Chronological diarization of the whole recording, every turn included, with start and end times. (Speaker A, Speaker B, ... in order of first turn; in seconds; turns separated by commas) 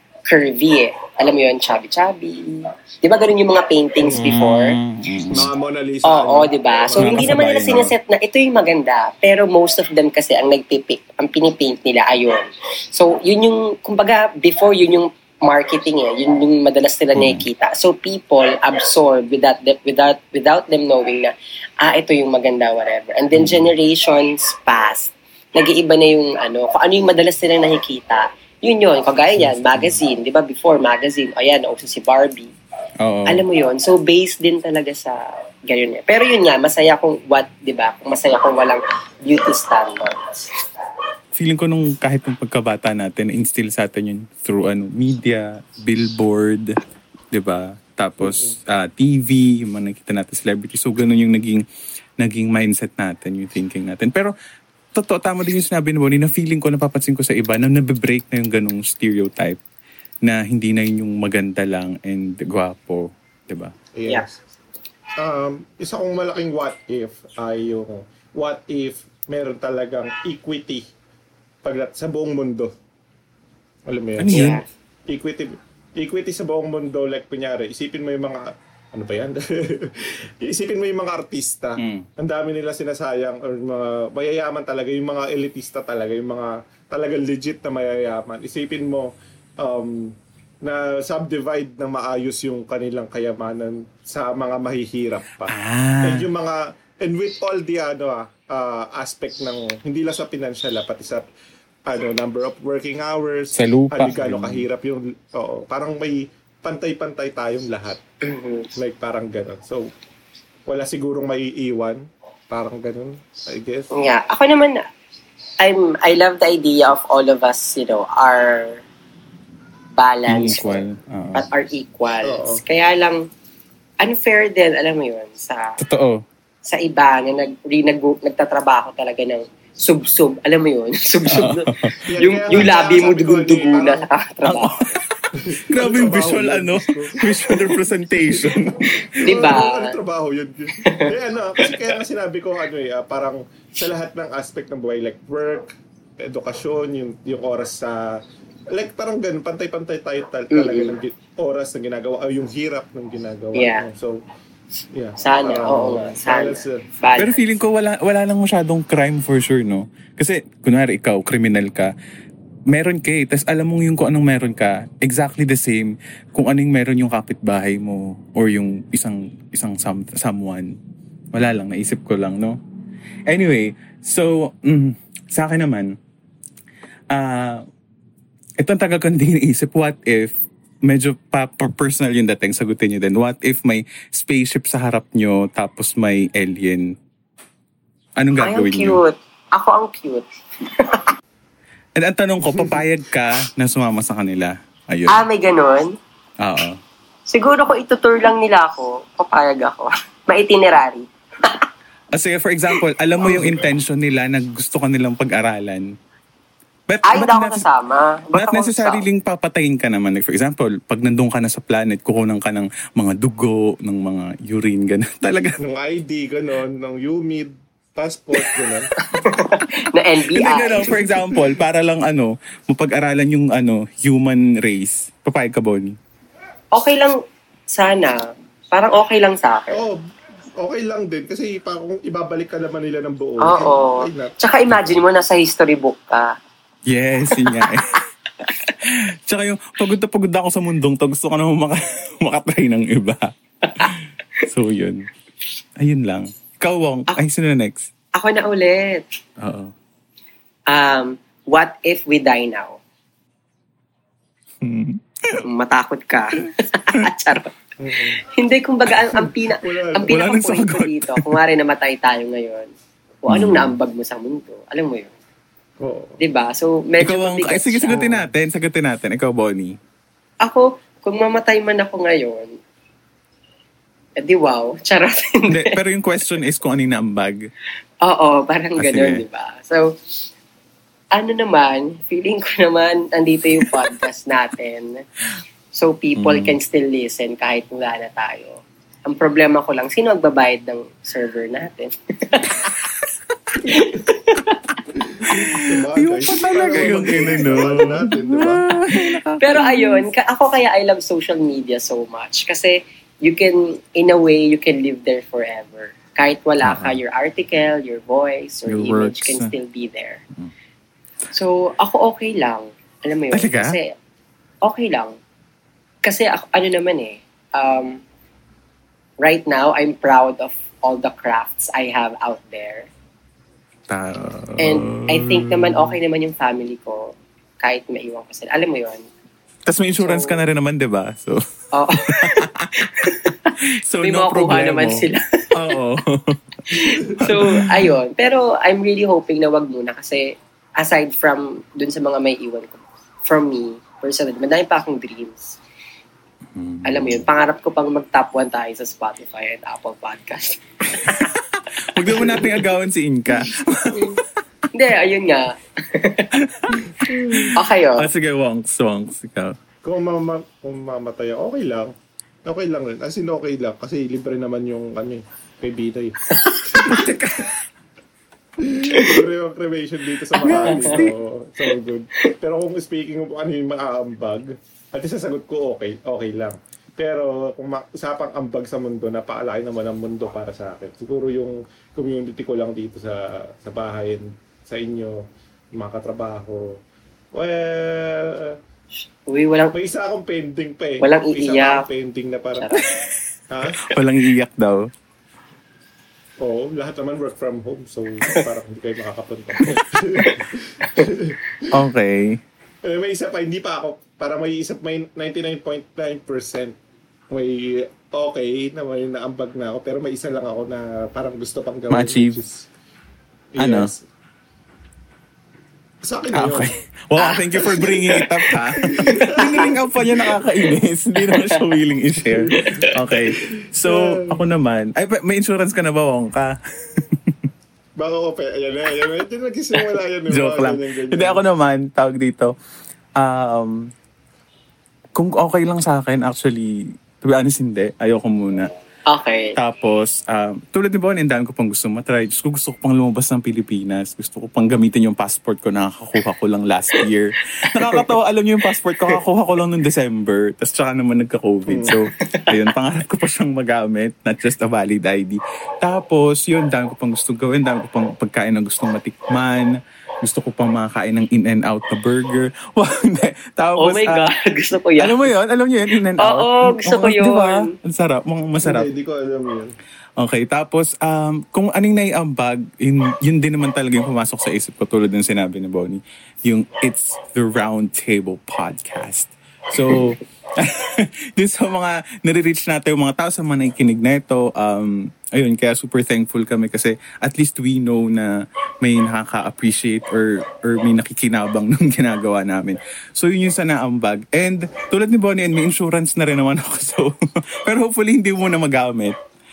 Speaker A: 0.2-4.8, Speaker B: 4.0-4.3, Speaker C: 4.1-5.5, Speaker B: 5.3-7.4, Speaker A: 6.0-32.5, Speaker C: 7.0-7.9, Speaker C: 17.1-17.4, Speaker C: 23.3-23.7, Speaker C: 29.4-30.0, Speaker C: 33.0-33.4, Speaker A: 33.2-40.5, Speaker C: 41.3-46.8, Speaker C: 47.3-51.6, Speaker C: 52.2-54.3, Speaker C: 54.9-59.6, Speaker C: 60.2-63.7, Speaker B: 63.9-64.4, Speaker B: 65.2-70.8, Speaker B: 71.6-72.7, Speaker B: 73.9-74.5, Speaker C: 74.2-74.6, Speaker A: 74.3-74.6, Speaker B: 75.1-101.2, Speaker C: 81.8-82.1, Speaker C: 95.5-96.3, Speaker B: 101.8-108.0, Speaker C: 103.5-104.7, Speaker A: 108.2-108.7, Speaker B: 108.8-109.9, Speaker B: 110.7-113.9, Speaker A: 113.9-114.8, Speaker A: 115.6-118.8, Speaker A: 120.0-123.3, Speaker C: 120.3-121.5, Speaker B: 122.2-122.6, Speaker A: 124.0-125.8, Speaker C: 125.8-126.2, Speaker A: 126.7-134.9, Speaker C: 131.3-132.7, Speaker B: 132.1-134.1, Speaker C: 134.4-139.4, Speaker B: 135.4-137.7, Speaker B: 139.1-148.2, Speaker A: 139.2-139.9, Speaker A: 140.8-141.1, Speaker B: 148.7-154.2, Speaker A: 150.5-150.9, Speaker A: 153.5-153.8, Speaker B: 154.9-156.8, Speaker A: 155.2-157.4, Speaker C: 157.2-161.9, Speaker C: 162.7-170.8, Speaker C: 171.3-172.6, Speaker C: 173.3-176.0, Speaker C: 177.1-177.6, Speaker C: 178.6-186.9, Speaker C: 188.2-189.0, Speaker A: 188.4-191.1, Speaker C: 191.9-195.2, Speaker A: 195.1-195.9, Speaker C: 196.4-196.8, Speaker A: 197.3-201.7, Speaker C: 202.1-205.9, Speaker C: 206.9-207.6, Speaker A: 207.0-209.0, Speaker C: 208.3-215.6, Speaker B: 215.6-218.9, Speaker A: 219.0-221.0, Speaker C: 220.2-226.0, Speaker A: 226.7-229.8, Speaker B: 229.7-230.0, Speaker B: 230.6-234.3, Speaker A: 233.4-236.3, Speaker C: 234.7-235.0, Speaker C: 236.9-245.1, Speaker A: 237.3-237.8, Speaker A: 243.6-243.9, Speaker C: 245.8-247.9, Speaker A: 248.1-249.0, Speaker C: 249.4-249.7, Speaker A: 250.7-252.8, Speaker C: 254.6-255.4, Speaker A: 255.4-257.5, Speaker B: 257.8-258.2, Speaker A: 258.2-262.7, Speaker B: 259.1-260.2, Speaker C: 260.0-261.4, Speaker A: 263.2-265.1, Speaker C: 263.3-263.7, Speaker B: 265.8-266.2, Speaker A: 266.2-268.0, Speaker C: 267.0-269.8, Speaker B: 267.9-268.2, Speaker A: 270.4-272.6, Speaker A: 274.2-275.8, Speaker C: 275.5-277.5, Speaker A: 278.0-280.0, Speaker C: 278.8-279.2, Speaker A: 281.1-285.0, Speaker A: 285.7-292.6, Speaker C: 286.1-286.6, Speaker A: 293.6-294.6, Speaker B: 295.0-298.7, Speaker C: 295.3-300.1, Speaker A: 296.5-297.9, Speaker A: 299.4-310.2, Speaker C: 306.6-307.0, Speaker C: 308.6-309.5, Speaker A: 311.3-313.9, Speaker C: 313.3-313.8, Speaker A: 314.6-315.1, Speaker A: 316.0-318.0, Speaker A: 319.2-322.9, Speaker C: 323.9-325.9, Speaker A: 324.6-329.0, Speaker C: 329.7-331.4, Speaker A: 330.0-330.4, Speaker A: 331.7-335.5, Speaker C: 332.1-337.9, Speaker A: 336.7-345.6, Speaker C: 346.5-347.2, Speaker A: 346.8-350.6, Speaker C: 350.9-354.2, Speaker B: 352.2-352.6, Speaker A: 353.9-354.2, Speaker A: 354.7-356.3, Speaker C: 356.4-359.6, Speaker B: 356.8-357.5, Speaker A: 357.5-358.1, Speaker B: 359.8-361.9, Speaker B: 362.4-366.2, Speaker A: 366.3-367.0, Speaker B: 366.7-367.1, Speaker C: 366.9-367.6, Speaker B: 368.6-386.8, Speaker A: 368.9-369.2, Speaker A: 370.4-371.1, Speaker C: 370.4-371.1, Speaker B: 387.3-388.6, Speaker A: 389.3-389.7, Speaker B: 389.7-392.8, Speaker A: 391.0-391.9, Speaker A: 392.6-392.8, Speaker B: 393.5-393.9, Speaker C: 393.8-394.9, Speaker B: 396.4-401.7, Speaker C: 401.7-402.4, Speaker B: 402.8-406.8, Speaker B: 407.3-412.7, Speaker C: 411.9-412.4, Speaker B: 413.5-414.0, Speaker C: 413.6-413.9, Speaker B: 416.0-416.7, Speaker C: 416.3-427.5, Speaker A: 417.1-418.3, Speaker B: 418.7-420.2, Speaker A: 419.2-419.7, Speaker A: 421.2-421.6, Speaker B: 422.3-424.4, Speaker A: 422.5-422.9, Speaker B: 428.0-431.4, Speaker C: 430.3-432.5, Speaker C: 433.2-433.9, Speaker C: 435.1-438.7, Speaker A: 439.1-439.6, Speaker C: 439.6-464.3, Speaker A: 447.8-448.1, Speaker B: 451.7-452.0, Speaker A: 452.2-452.6, Speaker A: 463.8-465.3, Speaker C: 465.0-468.9, Speaker A: 466.2-467.7, Speaker B: 468.6-469.7, Speaker C: 470.2-499.2